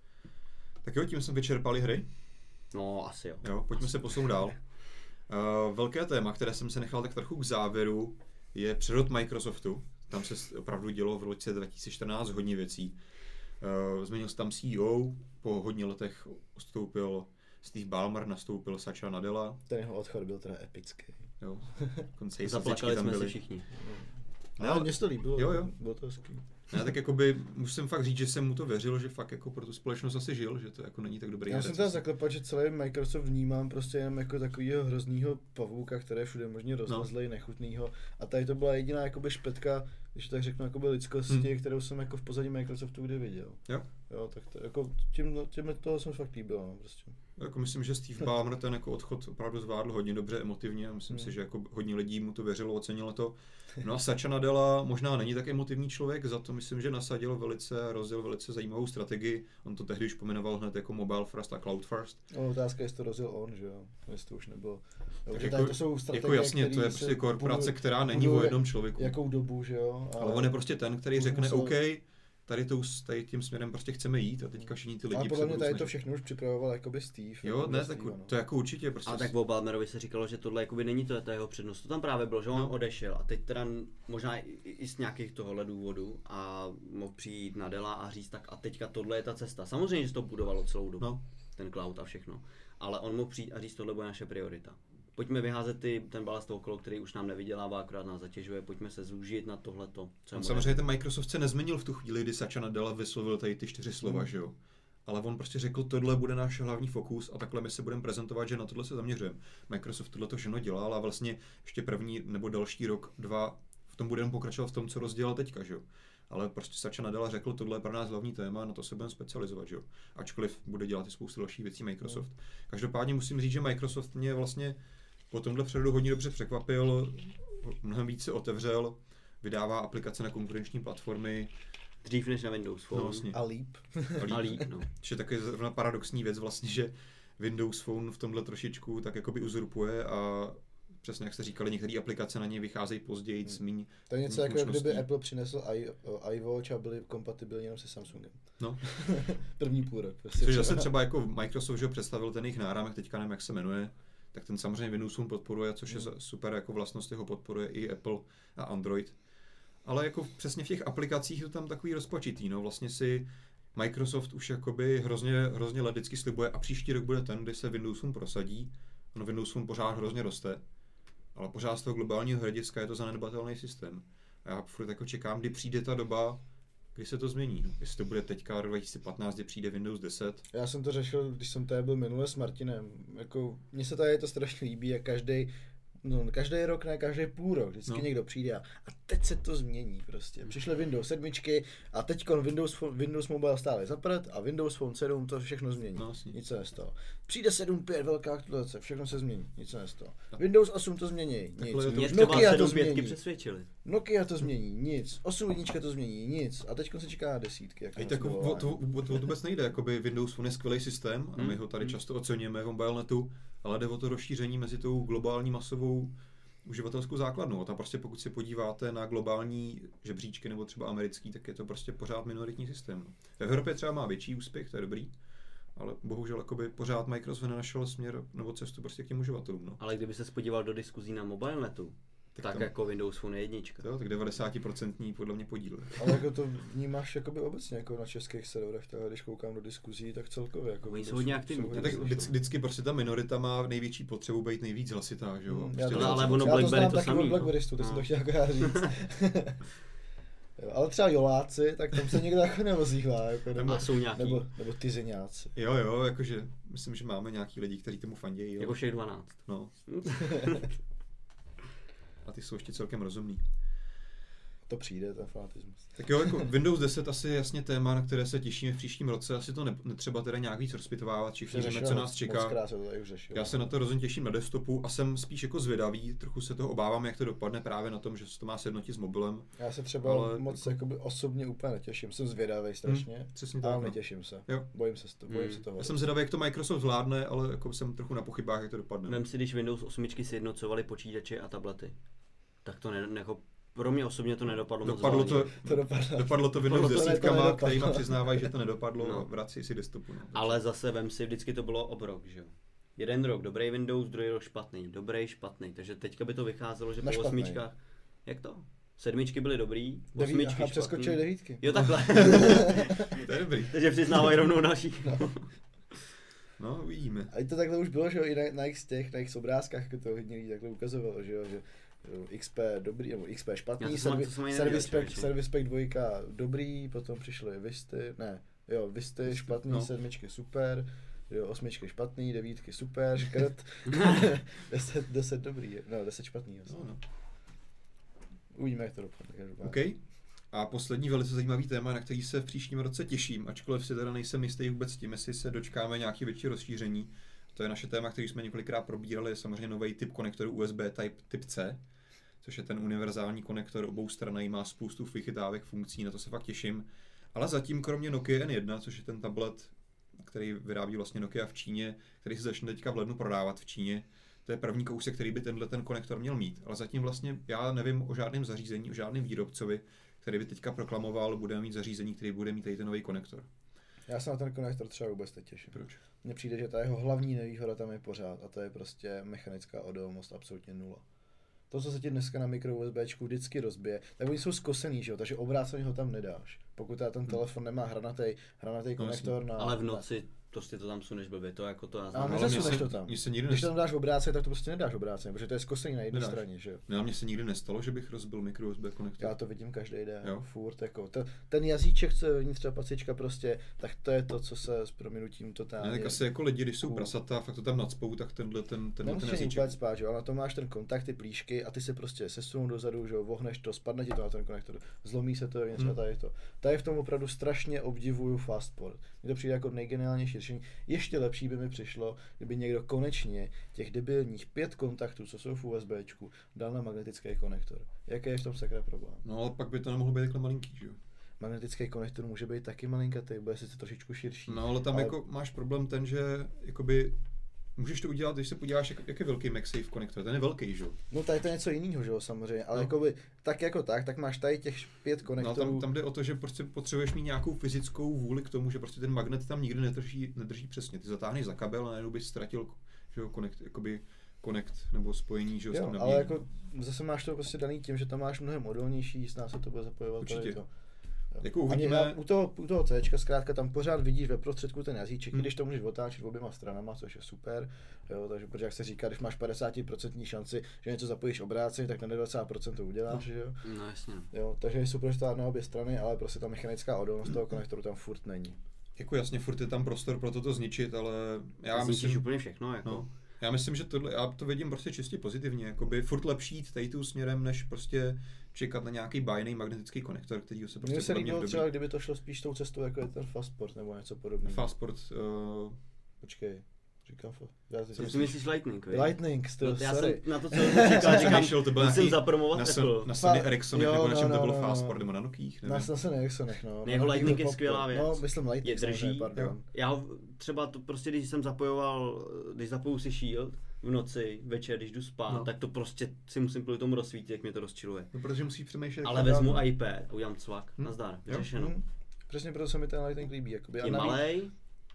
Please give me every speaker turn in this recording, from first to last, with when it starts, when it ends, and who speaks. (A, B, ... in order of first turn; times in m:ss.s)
0:00.8-0:02.1 A
0:02.7-0:03.5 B
0:03.4-0:04.6 A
0:05.3-0:13.0 A
0:13.6-0:19.6 A
0:19.7-0:22.0 C
0:21.4-0:23.4 A
0:22.4-0:23.7 B
0:23.8-0:26.4 C
0:24.6-0:25.7 A
0:26.7-0:32.0 A
0:31.5-0:47.2 C
0:47.4-1:02.2 A
1:02.3-1:10.6 C
1:05.3-1:09.1 A
1:10.2-1:15.9 A
1:11.1-1:11.8 C
1:15.1-1:18.3 C
1:17.4-1:19.3 A
1:19.0-1:40.8 B
1:40.3-1:44.5 A
1:44.0-1:44.3 C
1:45.0-2:04.8 A
2:05.3-2:11.5 A
2:12.0-2:13.3 B
2:12.9-2:13.4 A
2:13.3-2:14.5 C
2:14.2-2:25.0 A
2:14.3-2:14.9 B
2:24.1-2:30.9 C
2:30.4-2:39.2 A
2:39.8-2:50.6 A
2:51.3-2:56.4 A
2:56.9-3:00.4 A
3:00.5-3:23.2 C
3:16.0-3:16.3 A
3:21.6-3:22.6 A
3:21.9-3:23.7 B
3:23.8-3:28.8 C
3:28.0-3:45.1 A
3:31.3-3:31.6 B
3:45.8-3:49.8 A
3:49.8-3:53.8 B
3:52.4-3:52.7 A
3:53.8-3:56.2 A
3:56.0-4:02.3 C
4:00.8-4:02.3 B
4:01.7-4:06.7 A
4:05.5-4:09.6 C
4:05.9-4:08.0 B
4:10.6-4:15.5 C
4:13.6-4:13.8 A
4:13.6-4:14.5 B
4:15.5-4:19.7 A
4:18.6-4:20.7 B
4:22.2-4:23.4 A
4:24.7-4:26.4 C
4:26.0-4:32.6 A
4:31.5-4:33.7 C
4:33.3-4:40.8 A
4:39.6-4:46.1 C
4:42.8-4:44.6 A
4:45.3-4:45.6 B
4:45.8-4:49.2 A
4:49.1-4:52.0 B
4:52.6-4:55.5 B
4:54.8-5:00.6 A
4:55.3-4:58.5 C
4:56.7-4:57.4 B
4:59.0-4:59.2 B
5:00.3-5:15.5 B
5:07.0-5:07.6 C
5:10.1-5:12.9 C
5:11.7-5:13.8 A
5:16.6-5:17.3 A
5:17.3-5:36.9 C
5:23.8-5:25.3 B
5:29.4-5:29.9 A
5:36.7-5:37.0 A
5:38.5-5:39.8 C
5:39.6-5:40.0 A
5:40.5-5:51.8 A
5:52.4-6:13.5 A
6:14.1-6:21.0 C
6:15.7-6:16.0 A
6:21.7-6:30.0 C
6:29.0-6:29.4 A
6:29.6-6:32.8 B
6:32.1-6:36.8 C
6:32.2-6:33.7 A
6:36.1-6:39.3 A
6:39.2-6:46.2 C
6:45.8-6:49.7 A
6:46.8-6:47.1 C
6:49.0-7:09.2 C
7:09.2-7:11.0 A
7:11.4-7:15.2 C
7:14.5-7:17.2 A
7:17.8-7:21.0 A
7:21.1-7:25.9 C
7:25.4-7:36.4 A
7:35.7-7:40.6 C
7:40.2-7:40.6 A
7:41.3-7:53.6 C
7:41.4-7:42.2 A
7:53.6-7:54.3 B
7:54.3-7:58.6 C
7:59.0-8:02.2 A
8:01.7-8:03.0 B
8:02.8-8:11.7 A
8:10.8-8:14.6 C
8:14.4-8:15.8 A
8:16.2-8:18.3 C
8:18.0-8:23.1 B
8:18.9-8:21.5 C
8:21.0-8:25.9 A
8:23.1-8:25.0 C
8:25.6-8:29.6 C
8:26.8-8:38.1 B
8:38.1-8:39.7 A
8:39.0-8:41.7 B
8:40.8-8:41.5 A
8:41.5-8:44.2 C
8:43.8-8:44.5 B